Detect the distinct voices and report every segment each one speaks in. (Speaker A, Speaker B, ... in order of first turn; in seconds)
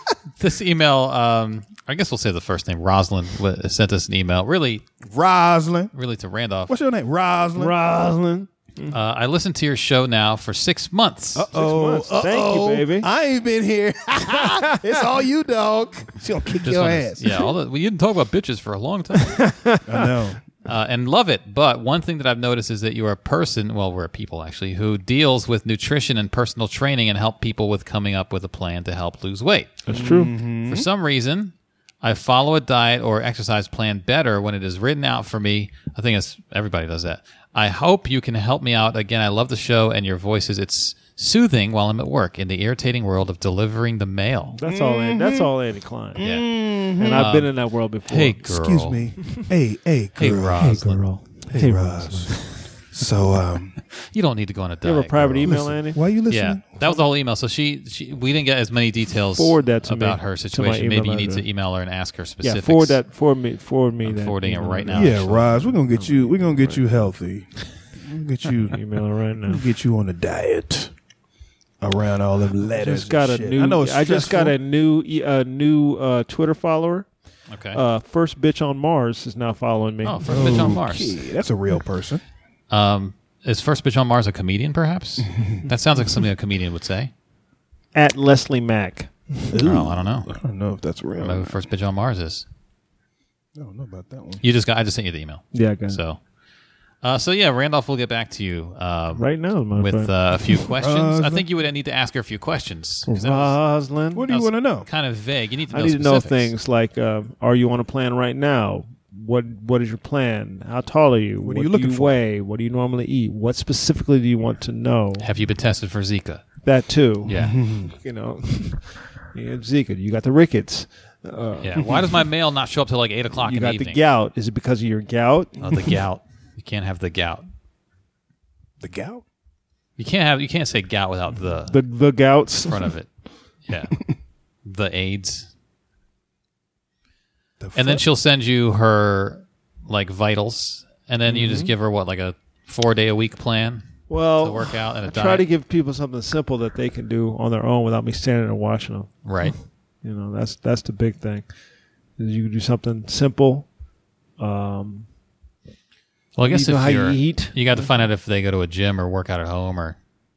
Speaker A: 0.4-4.8, 5.9-6.7, 8.9-11.5, 16.6-19.5, 20.6-29.9, 30.6-44.6, 46.2-49.2, 50.2-51.0, 53.9-55.7, 56.3-63.0, 64.0-65.5, 77.5-77.8, 80.0-81.2, 82.7-87.1, 89.6-90.3, 91.2-92.5, 94.4-96.2, 97.0-103.6, 104.3-106.5, 115.2-116.5, 117.3-117.6, 121.6-124.0, 125.6-127.5, 130.0-131.8, 132.7-133.1, 133.7-134.0, 134.7-135.5, 137.8-145.5, 149.2-149.6, 156.4-160.0
Speaker B: 5.1-5.9, 6.7-7.8, 11.3-17.2, 19.9-20.4, 29.9-30.9, 44.6-45.5, 46.2-47.3, 48.4-50.7, 51.5-53.8, 55.5-56.7, 64.9-68.8, 69.4-70.9, 71.8-74.6, 80.3-82.2, 85.2-85.7, 89.5-91.6, 93.6-94.4, 100.8-101.5, 104.2-104.9, 111.4-112.2, 117.3-117.9, 128.8-129.2, 137.6-138.0
Speaker C: 7.6-9.0, 11.5-13.1, 14.3-15.0, 19.3-20.1, 29.9-30.3, 44.6-46.2, 47.0-48.4, 50.6-52.5, 54.8-56.0, 59.4-61.4, 62.4-65.2, 65.9-66.9, 68.7-69.6, 72.7-77.1, 77.7-80.7, 88.0-89.1, 95.5-96.0, 99.2-100.1, 103.1-104.3, 105.7-115.3, 116.6-122.2, 123.4-125.6, 131.7-132.9, 141.3-141.7, 144.1-149.1, 150.0-151.5, 152.2-153.7, 154.4-155.1, 156.5-157.8